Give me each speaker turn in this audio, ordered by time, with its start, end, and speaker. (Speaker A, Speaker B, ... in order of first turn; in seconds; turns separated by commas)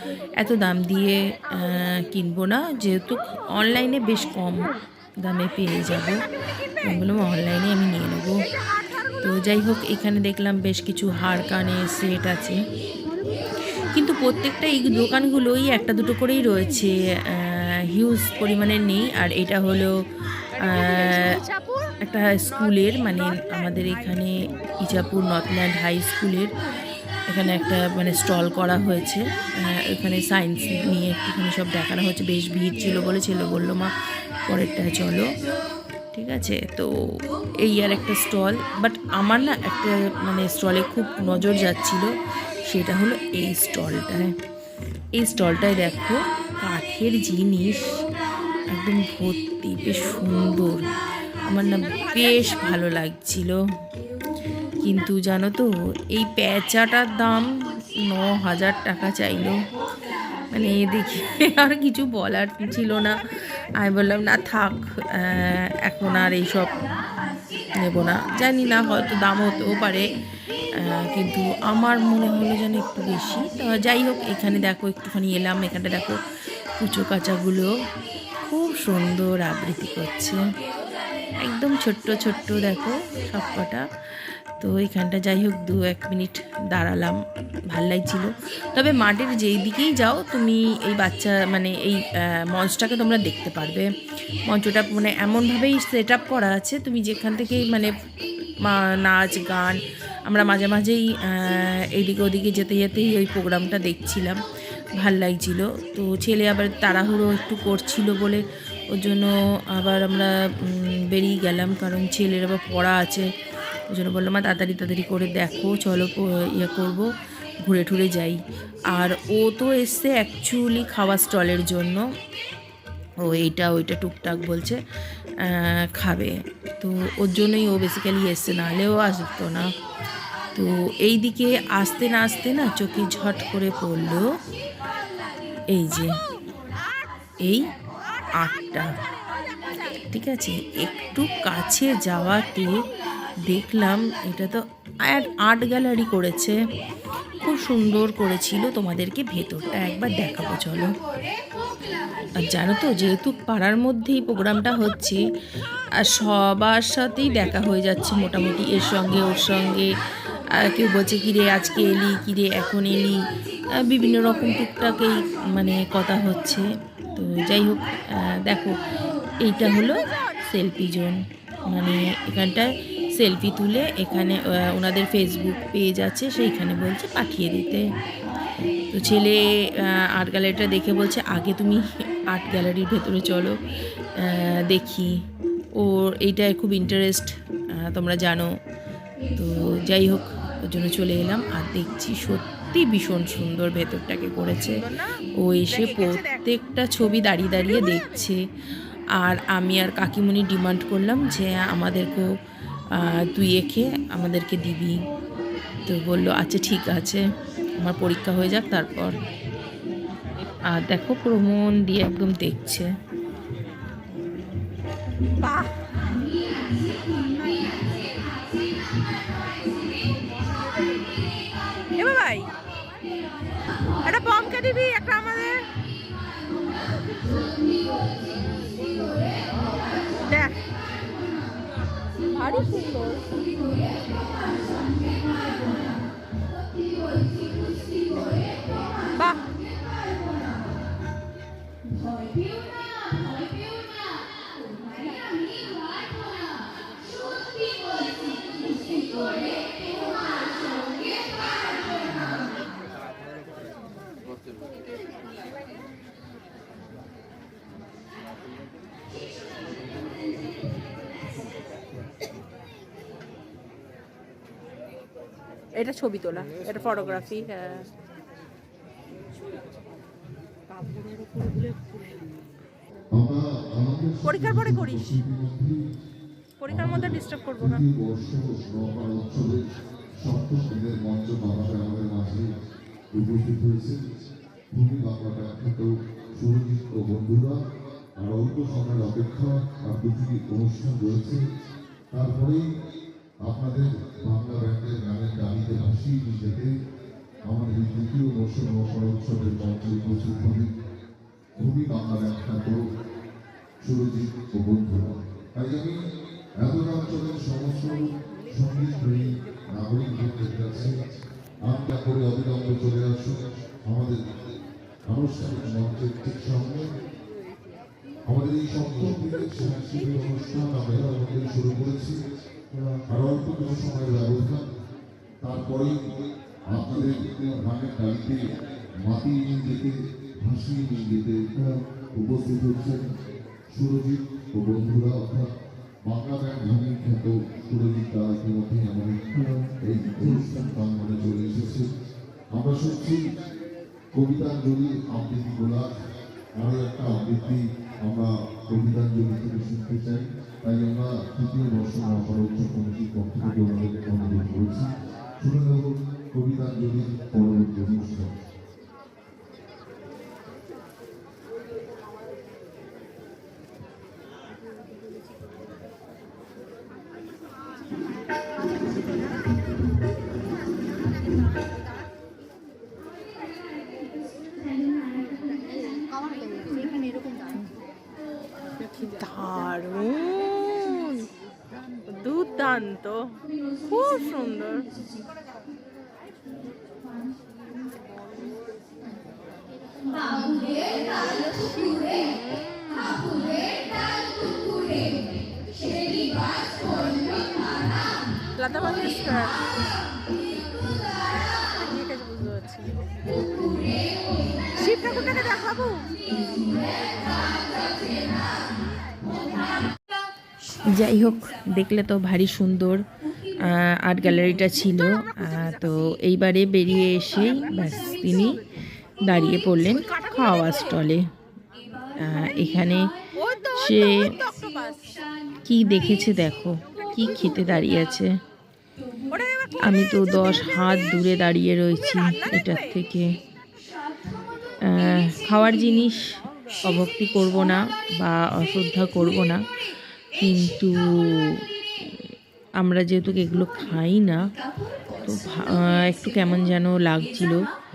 Speaker A: 0.4-6.2, Speaker A: 6.8-8.4, Speaker A: 9.2-12.6, Speaker A: 13.9-19.9, Speaker B: 20.6-22.0, Speaker A: 20.6-21.3, Speaker A: 22.0-26.5, Speaker B: 22.8-24.0, Speaker A: 27.3-33.9, Speaker A: 34.5-35.4, Speaker A: 36.1-42.1, Speaker A: 42.7-44.4, Speaker A: 45.2-48.0, Speaker A: 48.7-50.9, Speaker A: 51.4-53.6, Speaker B: 51.9-52.3, Speaker A: 54.8-59.6, Speaker A: 60.5-63.2, Speaker A: 63.8-66.8, Speaker A: 67.8-70.0, Speaker A: 70.8-76.2, Speaker A: 76.8-77.7, Speaker A: 78.5-80.4, Speaker A: 81.4-83.8, Speaker A: 84.6-87.2, Speaker A: 87.7-93.9, Speaker A: 94.4-97.9, Speaker A: 98.6-104.4, Speaker A: 105.0-113.3, Speaker A: 113.9-117.1, Speaker A: 117.6-118.4, Speaker A: 118.9-122.0, Speaker A: 123.2-124.8, Speaker A: 125.5-129.7, Speaker A: 130.6-134.3, Speaker A: 135.7-136.1, Speaker A: 137.4-137.7, Speaker A: 138.4-138.9, Speaker B: 139.1-139.9, Speaker A: 140.1-142.8, Speaker A: 143.5-146.6, Speaker A: 147.4-150.9, Speaker A: 152.3-155.2, Speaker A: 156.0-159.9, Speaker A: 160.6-163.2, Speaker A: 163.8-168.8, Speaker A: 169.4-177.8, Speaker A: 178.9-183.6, Speaker A: 184.2-185.1, Speaker A: 185.8-188.5, Speaker A: 189.3-194.8, Speaker A: 195.4-198.4, Speaker B: 195.7-196.4, Speaker A: 199.2-202.3, Speaker A: 203.0-205.0, Speaker A: 205.9-207.2, Speaker A: 207.8-209.2, Speaker A: 210.7-212.9, Speaker B: 215.4-216.0, Speaker B: 217.2-217.9, Speaker B: 220.1-221.0, Speaker B: 221.9-222.5, Speaker B: 224.0-225.7, Speaker B: 229.1-229.4, Speaker B: 230.1-230.6, Speaker B: 232.3-233.4, Speaker B: 239.1-239.5, Speaker B: 265.8-267.9, Speaker B: 271.3-271.9, Speaker C: 273.1-275.8, Speaker B: 274.2-275.2, Speaker B: 276.6-277.8, Speaker C: 276.7-282.5, Speaker C: 283.1-284.0, Speaker C: 284.7-287.6, Speaker C: 288.2-291.4, Speaker C: 292.1-292.7, Speaker C: 293.4-296.7, Speaker C: 297.4-300.7, Speaker C: 301.6-302.9, Speaker C: 303.8-306.0, Speaker C: 306.6-311.1, Speaker C: 311.6-314.2, Speaker C: 315.1-316.9, Speaker C: 318.3-322.2, Speaker C: 322.9-324.7, Speaker C: 325.4-326.0, Speaker C: 326.7-328.4, Speaker C: 329.0-333.1, Speaker C: 333.7-335.5, Speaker C: 336.1-341.9, Speaker C: 342.5-343.2, Speaker C: 344.1-346.0, Speaker C: 346.6-358.4, Speaker B: 375.8-377.5, Speaker B: 378.8-381.2, Speaker A: 379.0-381.1, Speaker B: 382.1-383.3, Speaker A: 382.5-382.8, Speaker B: 383.9-384.8, Speaker B: 390.5-393.4, Speaker B: 398.6-399.6, Speaker B: 401.7-403.1, Speaker B: 404.7-406.3, Speaker A: 410.9-413.0, Speaker A: 413.6-418.6, Speaker B: 415.6-416.0, Speaker A: 419.2-421.2, Speaker B: 419.9-420.9, Speaker A: 422.2-423.1, Speaker B: 423.4-425.1, Speaker A: 423.8-424.3, Speaker A: 425.7-428.4, Speaker B: 429.3-429.8, Speaker A: 429.8-433.4, Speaker B: 432.2-432.8, Speaker A: 434.9-436.2, Speaker A: 436.8-439.6, Speaker A: 440.4-442.3, Speaker A: 442.8-444.4, Speaker A: 445.2-447.7